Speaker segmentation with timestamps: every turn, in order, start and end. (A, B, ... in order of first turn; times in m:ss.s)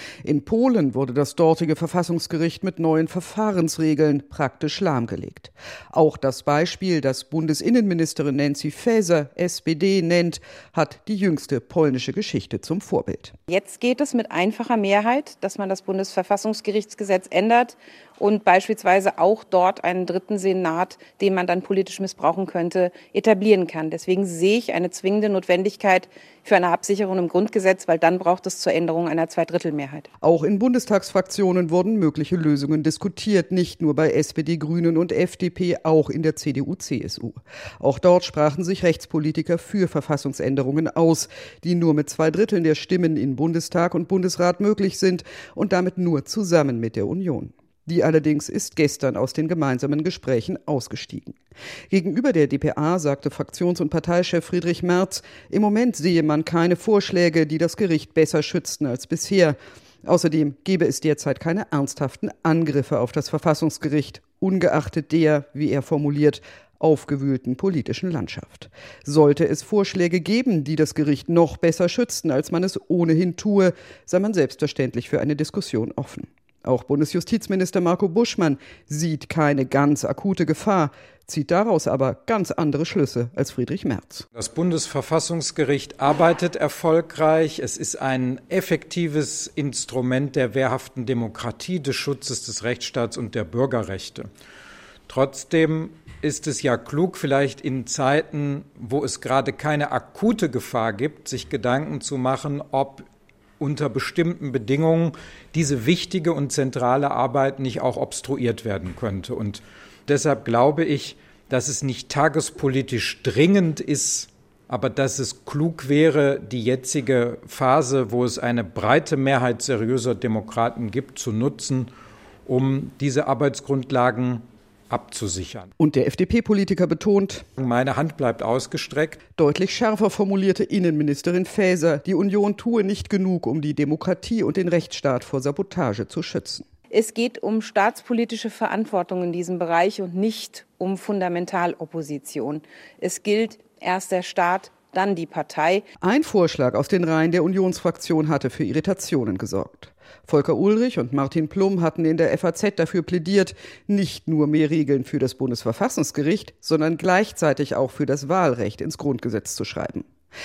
0:00.2-0:13.3 A
0:13.5-0:30.1 B
0:30.2-0:51.4 A
0:51.9-1:24.2 A
1:24.3-1:34.3 C
1:35.1-1:43.1 C
1:43.6-2:01.9 C
2:02.4-2:05.7 C
2:05.8-2:07.4 A
2:07.6-2:09.2 C
2:09.3-2:16.6 A
2:16.9-2:25.8 B
2:26.0-2:40.1 A